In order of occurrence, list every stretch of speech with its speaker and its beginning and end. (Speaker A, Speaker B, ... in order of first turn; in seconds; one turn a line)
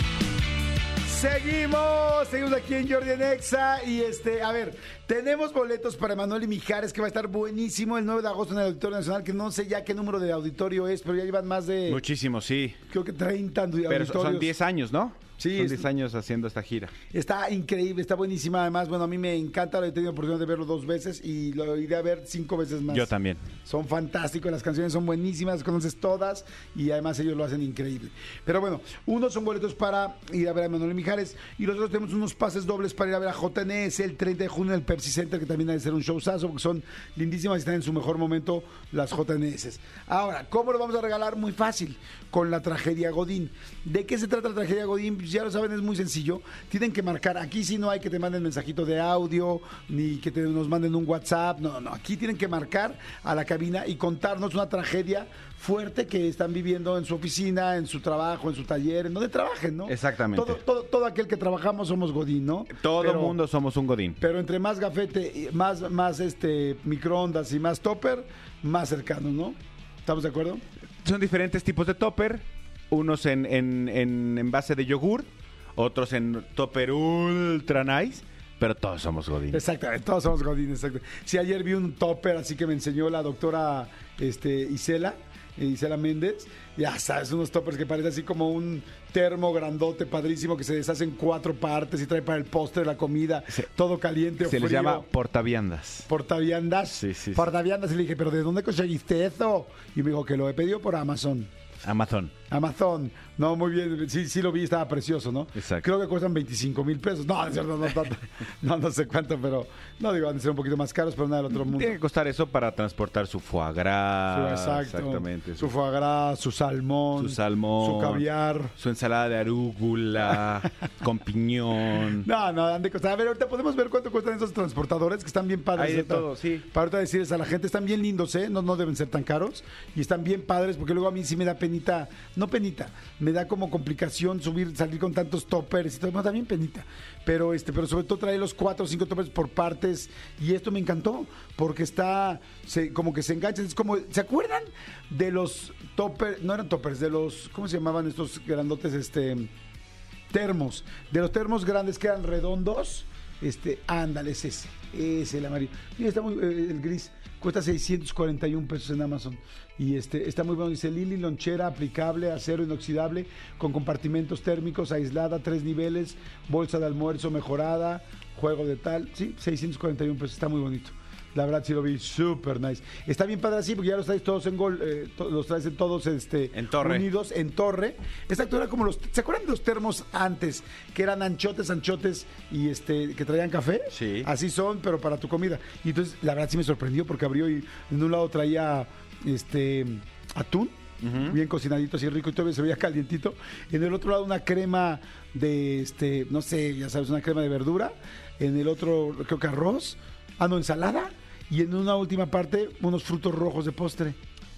Speaker A: 1.0-12.0
Speaker B: 11.9-12.8
Speaker A: 12.9-14.5
Speaker B: 13.9-16.9
Speaker A: 15.4-15.9
Speaker A: 17.1-23.1
Speaker B: 22.9-23.5
Speaker A: 23.6-63.4
Speaker B: 59.9-60.6
Speaker B: 62.7-64.2
Speaker A: 64.2-70.6
Speaker B: 71.0-79.6
Speaker A: 79.5-95.1
Speaker B: 94.4-96.1
Speaker A: 96.1-101.5
Speaker B: 97.0-97.5
Speaker B: 101.8-102.3
Speaker A: 102.5-112.0
Speaker B: 105.6-105.9
Speaker B: 111.5-115.7
Speaker A: 114.3-118.7
Speaker B: 117.2-118.2
Speaker B: 118.8-122.3
Speaker A: 122.1-149.5
Speaker B: 125.8-126.7
Speaker A: 150.3-204.2
Speaker B: 176.5-177.1
Speaker B: 183.9-184.3
Speaker B: 191.0-191.4